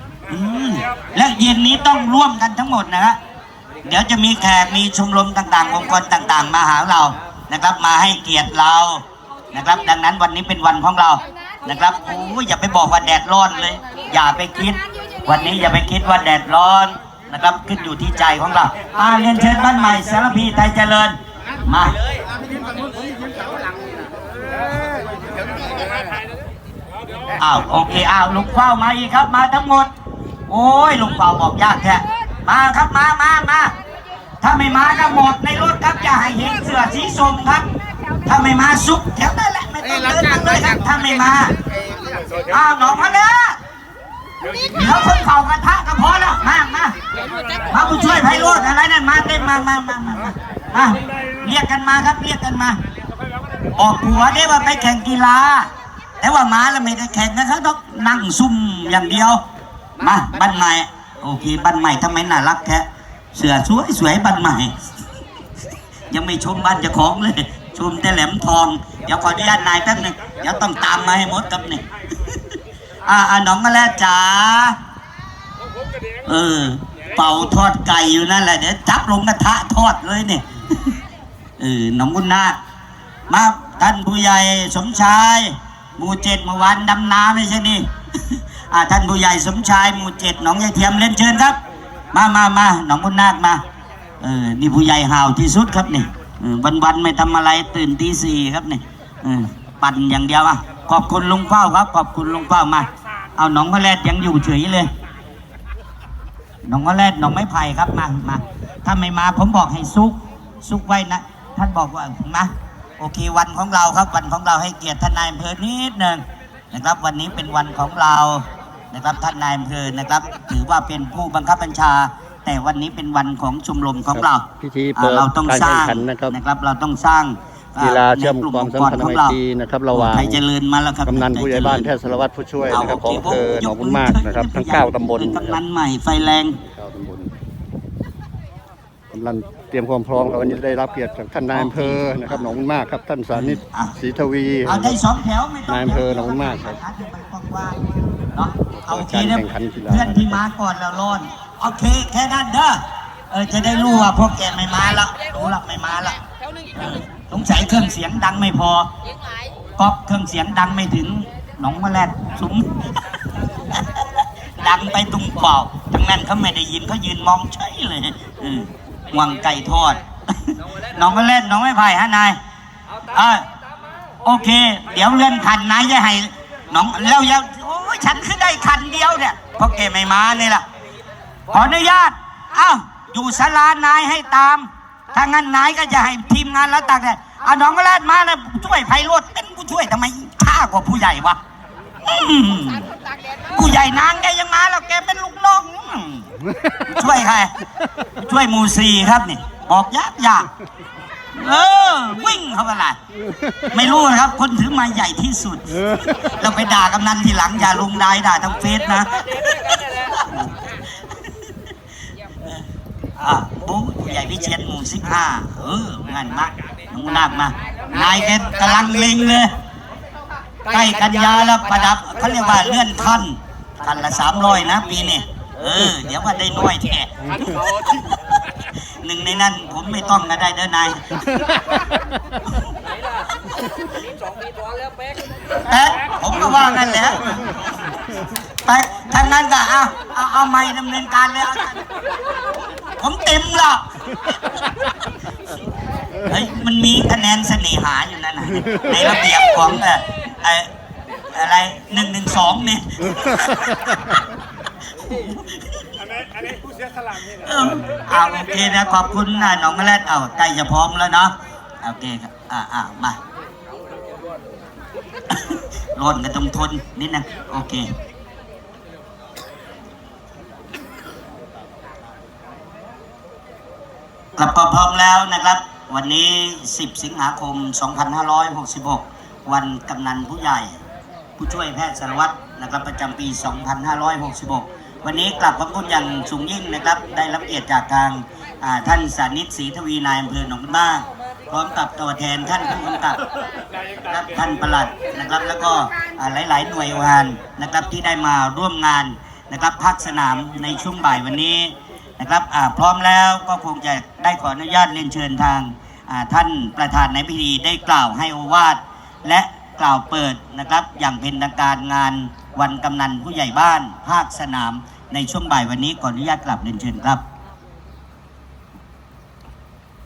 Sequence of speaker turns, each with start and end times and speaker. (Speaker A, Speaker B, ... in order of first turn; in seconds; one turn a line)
Speaker A: 0.3-3.2
Speaker A: 3.8-21.9
Speaker A: 27.4-29.9
Speaker A: 30.5-33.7
Speaker A: 34.4-37.7
Speaker A: 38.2-41.5
Speaker A: 42.5-43.6
Speaker A: 44.7-47.0
Speaker A: 47.7-52.8
Speaker A: 53.8-59.4
Speaker A: 60.0-64.9
Speaker A: 66.1-71.8
Speaker A: 73.0-74.8
Speaker A: 76.2-81.0
Speaker A: 81.6-82.6
Speaker A: 83.3-91.6
Speaker A: 92.1-93.6
Speaker A: 94.2-104.9
Speaker A: 106.6-129.4
Speaker B: 124.1-126.4
Speaker B: 127.8-130.4
Speaker A: 129.9-131.9
Speaker B: 131.1-135.6
Speaker A: 132.7-136.6
Speaker B: 136.6-137.3
Speaker B: 139.1-145.0
Speaker A: 141.5-142.5
Speaker A: 143.3-143.9
Speaker A: 144.7-147.8
Speaker B: 145.7-146.8
Speaker A: 148.3-156.2
Speaker B: 148.7-150.4
Speaker A: 156.8-158.9
Speaker A: 159.8-162.7
Speaker A: 163.8-164.1
Speaker A: 164.6-172.4
Speaker A: 173.1-173.4
Speaker A: 174.2-180.6
Speaker A: 181.5-191.4
Speaker A: 192.0-192.9
Speaker A: 193.5-196.3
Speaker A: 196.9-197.5
Speaker A: 198.2-200.5
Speaker A: 201.3-203.0
Speaker B: 203.3-203.8
Speaker A: 203.7-211.5
Speaker B: 205.8-206.2
Speaker A: 213.2-219.5
Speaker A: 220.7-228.2
Speaker A: 229.0-231.2
Speaker B: 231.5-231.9
Speaker A: 235.5-237.6
Speaker A: 238.7-241.8
Speaker A: 243.0-243.9
Speaker A: 246.2-250.7
Speaker A: 251.3-254.2
Speaker A: 254.9-255.9
Speaker A: 257.3-263.2
Speaker A: 265.4-267.9
Speaker A: 274.4-280.7
Speaker A: 281.4-293.2
Speaker A: 294.1-317.2